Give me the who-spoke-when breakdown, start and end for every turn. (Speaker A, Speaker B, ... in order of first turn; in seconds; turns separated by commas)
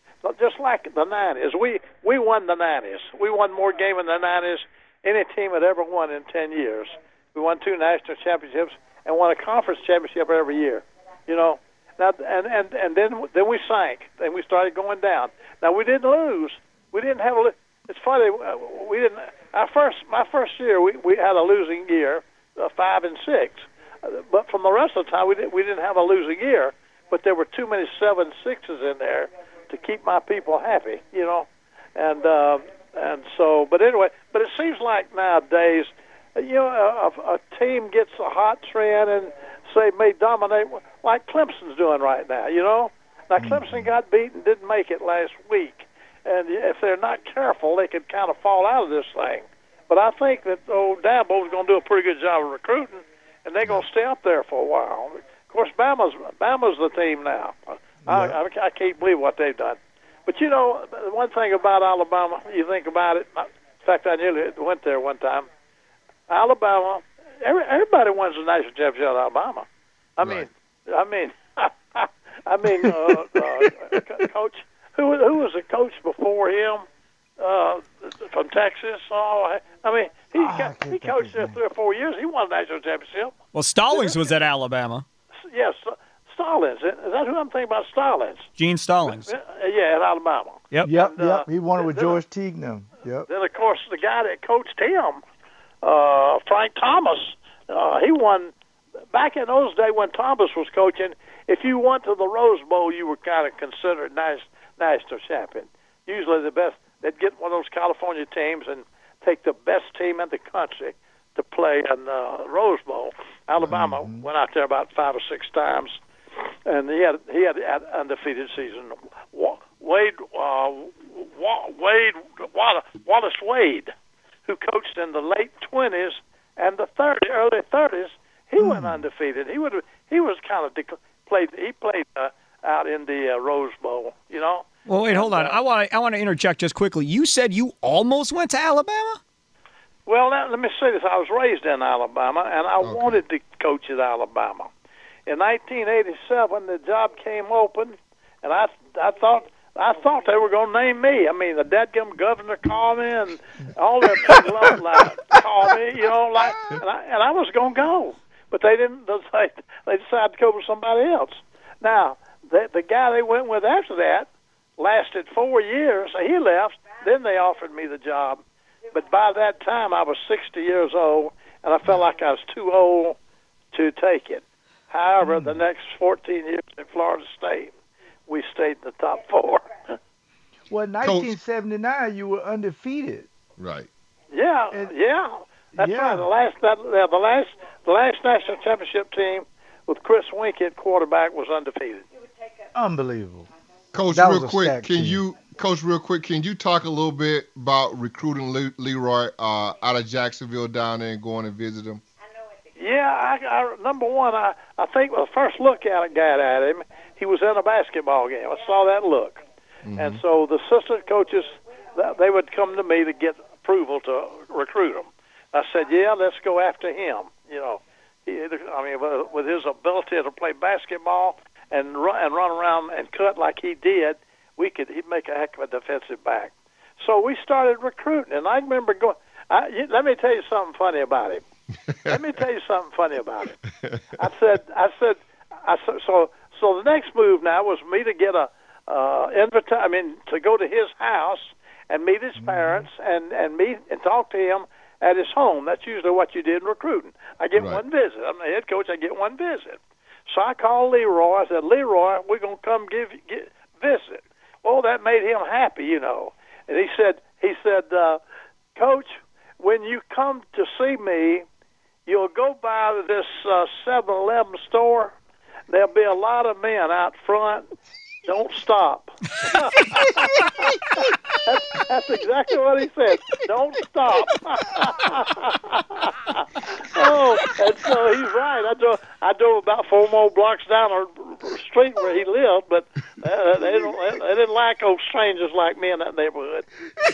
Speaker A: 0.2-65.5, Speaker B: 43.4-43.9, Speaker B: 58.0-58.4, Speaker A: 66.3-69.7, Speaker A: 70.2-76.8, Speaker C: 70.2-70.5, Speaker B: 72.8-73.7, Speaker A: 77.4-83.3, Speaker B: 80.3-81.6, Speaker D: 83.5-85.0, Speaker A: 83.9-84.3, Speaker A: 85.5-88.5, Speaker D: 88.6-89.3, Speaker A: 89.0-92.2, Speaker B: 90.8-93.3, Speaker A: 93.3-95.2, Speaker A: 95.8-98.5, Speaker A: 99.1-123.9, Speaker B: 113.6-114.2, Speaker A: 124.5-135.6, Speaker B: 128.6-129.0, Speaker D: 134.9-139.2, Speaker A: 140.1-144.7, Speaker C: 142.8-143.2, Speaker A: 145.3-173.2, Speaker A: 173.7-177.7, Speaker B: 175.2-175.6, Speaker A: 178.3-179.9, Speaker B: 180.7-183.3, Speaker C: 181.0-181.3, Speaker C: 183.6-183.9, Speaker A: 184.3-192.0, Speaker B: 185.7-186.3, Speaker B: 192.7-193.5, Speaker C: 193.9-202.0, Speaker B: 194.1-195.2, Speaker A: 202.8-209.4, Speaker C: 209.8-210.2, Speaker A: 209.9-231.4, Speaker A: 232.0-233.6, Speaker A: 234.2-258.2, Speaker B: 242.4-242.9, Speaker C: 247.6-247.8, Speaker A: 258.8-261.4, Speaker A: 262.1-265.1, Speaker A: 265.7-267.7, Speaker A: 268.2-286.7